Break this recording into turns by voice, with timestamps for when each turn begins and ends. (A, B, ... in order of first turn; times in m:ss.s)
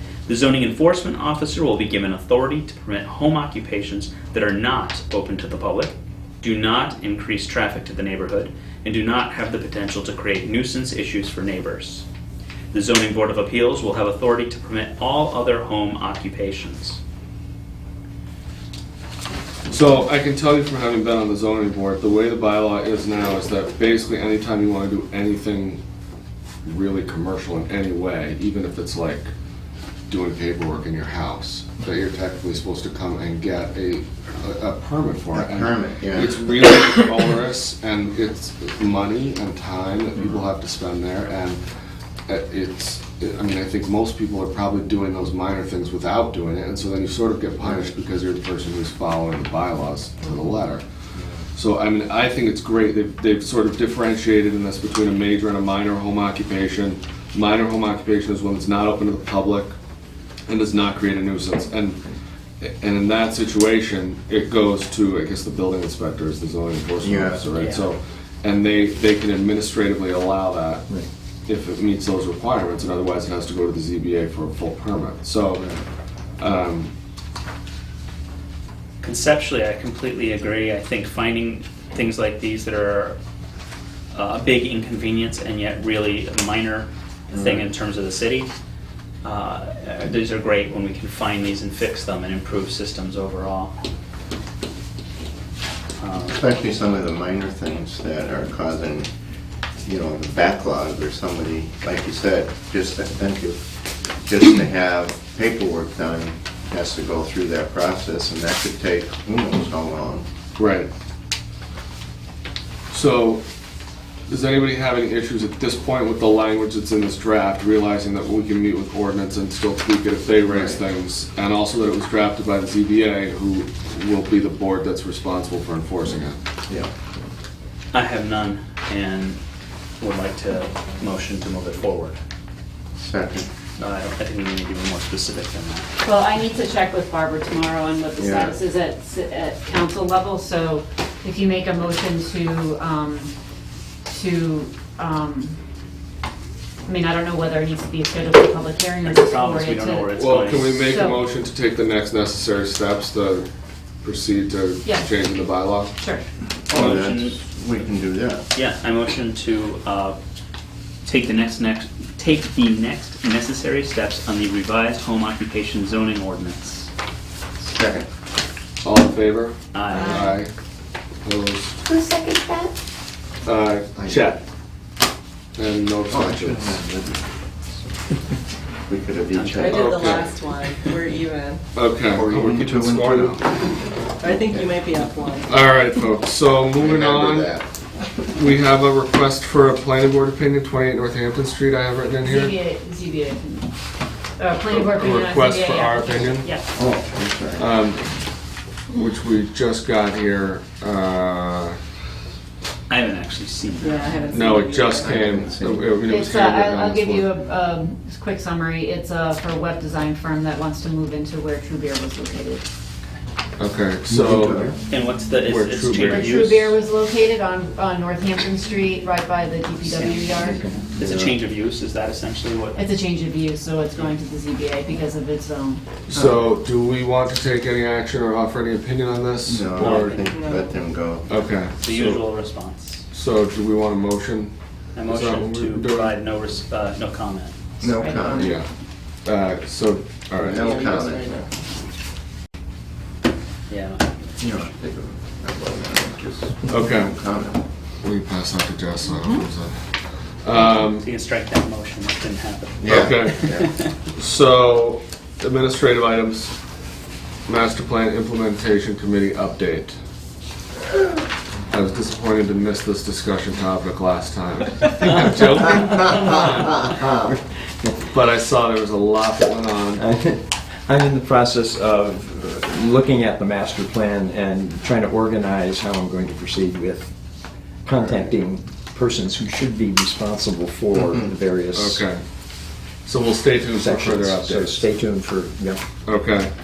0:00.2-0:12.0 A
0:12.7-0:17.0 A
0:19.7-0:25.8 B
0:26.6-0:29.3 B
0:30.1-0:41.6 B
0:35.3-0:36.4 C
0:42.3-0:50.8 B
0:51.2-0:51.4 C
0:51.5-0:59.7 B
1:00.5-1:02.1 B
1:02.6-1:10.8 B
1:07.0-1:07.4 C
1:07.5-1:07.9 A
1:11.5-1:15.7 B
1:15.5-1:15.8 C
1:16.4-1:16.9 B
1:19.0-1:23.2 A
1:24.1-1:28.5 A
1:27.3-1:27.7 C
1:29.2-1:33.7 A
1:36.0-1:36.4 A
1:36.3-1:39.1 C
1:39.8-1:43.6 C
1:44.2-1:50.2 C
1:50.6-1:50.9 B
1:52.9-1:53.4 B
1:54.3-2:06.4 B
2:00.4-2:00.8 C
2:07.9-2:09.4 A
2:10.0-2:12.2 A
2:13.0-2:13.5 C
2:13.8-2:15.9 A
2:16.0-2:23.3 D
2:18.2-2:18.6 C
2:24.0-2:25.6 D
2:26.8-2:30.2 D
2:29.0-2:30.8 A
2:30.1-2:33.5 B
2:30.8-2:31.2 D
2:34.0-2:35.9 B
2:36.0-2:36.2 D
2:36.7-2:38.4 C
2:36.7-2:37.4 A
2:38.5-2:40.2 A
2:41.0-2:46.9 A
2:47.6-2:48.1 C
2:48.8-2:50.5 B
2:49.7-2:50.3 A
2:49.9-2:50.4 D
2:51.2-2:51.8 B
2:51.8-2:52.7 D
2:53.4-2:54.4 B
2:54.0-2:54.3 C
2:55.6-2:56.8 B
2:56.1-2:57.2 C
2:58.9-3:00.0 C
2:59.3-3:00.1 A
2:59.5-3:01.6 E
2:59.6-3:00.4 B
3:01.7-3:03.4 B
3:02.1-3:03.8 C
3:04.2-3:05.5 E
3:04.4-3:04.7 C
3:05.4-3:07.6 B
3:06.7-3:07.7 C
3:08.3-3:12.6 B
3:12.2-3:13.7 D
3:14.4-3:16.8 D
3:14.6-3:16.5 B
3:16.8-3:17.8 C
3:17.6-3:18.1 B
3:18.9-3:21.8 B
3:22.9-3:24.0 A
3:23.8-3:25.1 E
3:23.9-3:24.8 D
3:24.3-3:27.3 B
3:25.0-3:25.9 C
3:26.0-3:32.6 D
3:33.6-3:34.7 B
3:34.1-3:34.7 F
3:34.2-3:34.8 C
3:34.9-3:36.7 A
3:35.4-3:36.5 B
3:36.0-3:40.7 D
3:39.9-3:42.8 A
3:42.7-3:45.8 D
3:46.1-3:50.1 B
3:49.4-3:51.4 C
3:49.8-3:50.3 A
3:50.1-3:50.7 E
3:51.3-3:52.2 B
3:51.8-3:53.0 A
3:53.1-3:54.5 B
3:54.9-3:57.5 A
3:55.0-3:56.1 B
3:57.8-3:58.4 D
3:57.8-3:58.6 C
3:58.4-3:58.7 B
3:59.2-4:00.7 B
4:00.4-4:01.5 C
4:00.5-4:01.5 E
4:03.7-4:04.3 A
4:04.4-4:07.6 C
4:06.7-4:07.2 B
4:08.0-4:09.7 B
4:09.2-4:09.4 D
4:10.4-4:11.0 B
4:10.6-4:13.9 A
4:12.8-4:13.7 C
4:12.9-4:13.5 B
4:14.1-4:16.5 B
4:17.5-4:20.0 B
4:21.7-4:26.9 B
4:28.1-4:30.0 B
4:30.0-4:37.1 F
4:37.8-4:42.0 F
4:41.7-4:42.2 B
4:43.0-4:44.8 B
4:43.8-4:45.8 F
4:46.0-4:46.5 B